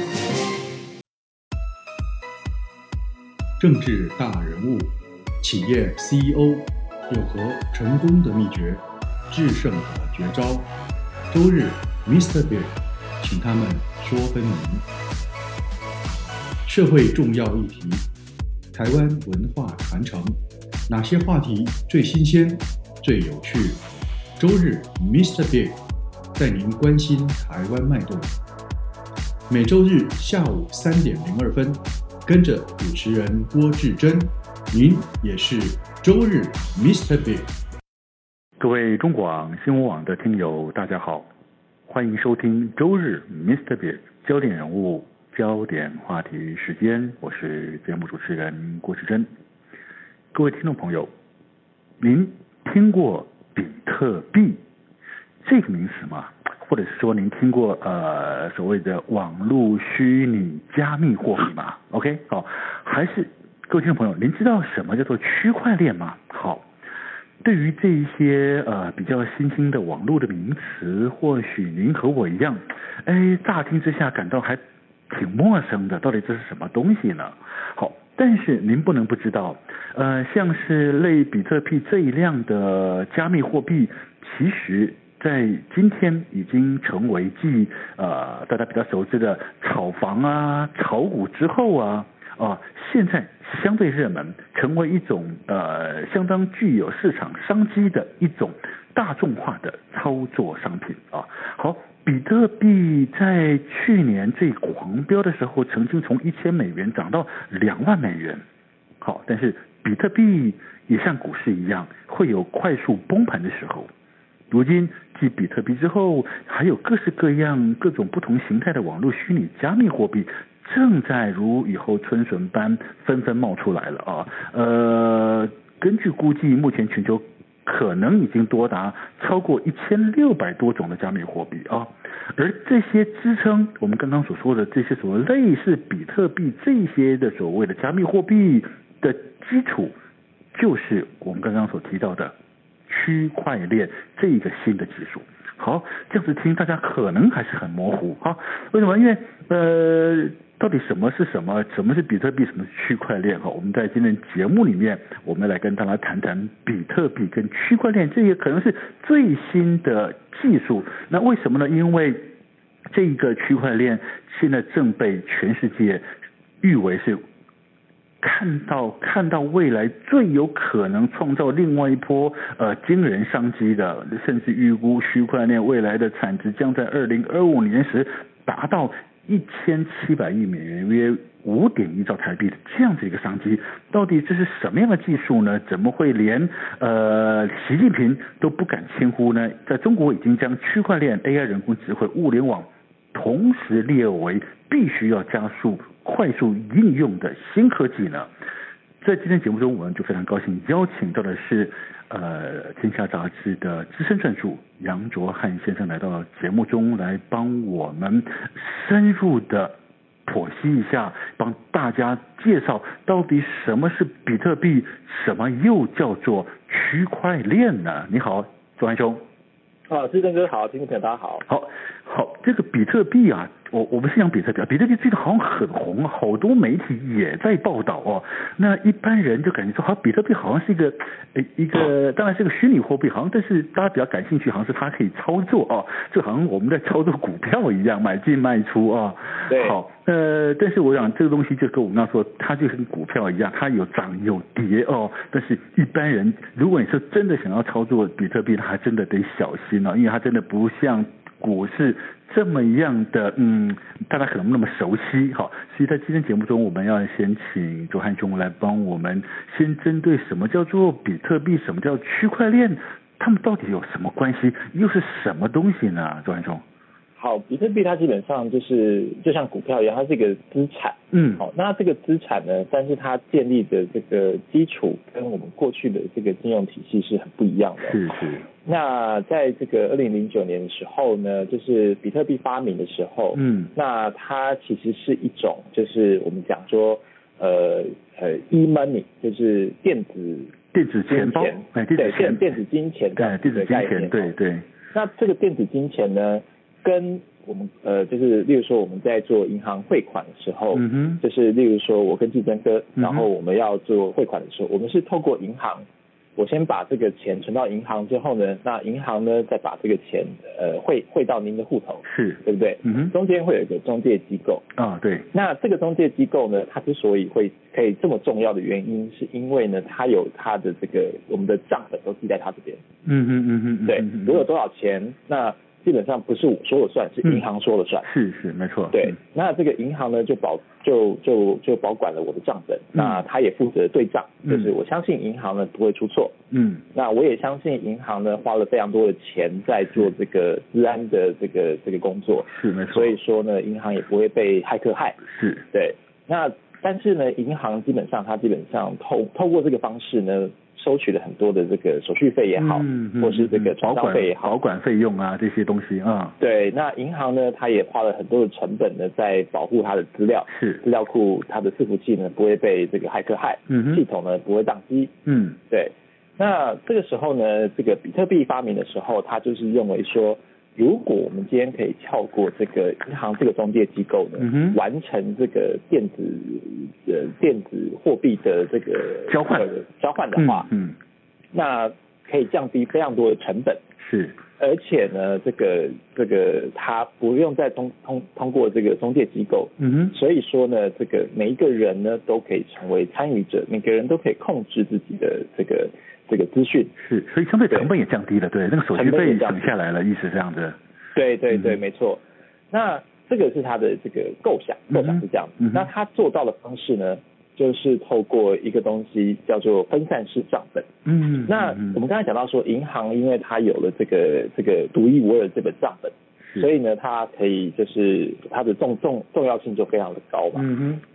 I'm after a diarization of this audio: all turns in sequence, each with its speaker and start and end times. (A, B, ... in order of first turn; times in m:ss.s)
0:03.6-0:10.7 A
0:11.3-0:14.8 A
0:16.6-0:18.1 A
0:18.7-0:23.8 A
0:24.4-0:25.8 A
0:26.4-0:28.4 A
0:29.5-0:37.5 A
0:38.6-0:41.3 B
0:41.9-0:49.3 B
0:50.3-0:51.1 B
0:52.0-0:54.6 B
0:55.4-1:06.7 B
1:07.4-1:48.4 B
1:49.0-1:53.9 B
1:54.5-2:19.9 B
2:20.5-2:22.3 B
2:22.9-2:42.2 B
2:42.9-2:46.0 B
2:46.6-2:47.2 B
2:48.2-3:18.3 B
3:19.0-3:29.7 B
3:30.2-3:39.2 B
3:39.9-3:41.4 C
3:41.5-4:26.6 B
3:59.5-3:59.8 C
4:27.2-4:38.1 C
4:31.1-4:31.4 B
4:37.8-4:38.4 B
4:38.6-4:50.5 C
4:43.4-4:43.7 B
4:50.7-4:52.5 B
4:51.1-4:54.3 C
4:53.2-4:54.7 B
4:54.9-5:14.6 C
5:00.7-5:01.2 B
5:03.0-5:03.2 B
5:12.0-5:13.1 B
5:14.8-5:15.3 B
5:15.3-5:22.8 C
5:23.0-5:24.4 B
5:23.8-5:28.1 C
5:28.0-5:29.1 B
5:28.9-5:36.4 C
5:33.0-5:33.2 B
5:36.5-5:36.8 B
5:36.9-5:54.5 C
5:42.5-5:43.1 B
5:45.3-5:45.6 B
5:52.6-5:56.4 B
5:56.4-6:05.1 C
6:00.5-6:00.8 B
6:03.7-6:04.0 B
6:05.2-6:05.6 B
6:05.7-6:20.7 C
6:14.4-6:14.8 B
6:19.3-6:19.7 B
6:20.4-6:21.0 B
6:21.5-6:23.8 C
6:24.0-6:24.4 B
6:24.6-6:36.9 C
6:29.8-6:30.1 B
6:37.0-6:40.8 B
6:38.9-6:39.6 C
6:41.1-6:42.2 C
6:42.7-6:50.9 C
6:44.9-6:45.9 B
6:51.0-6:52.0 B
6:51.4-7:00.6 C
7:00.5-7:01.0 B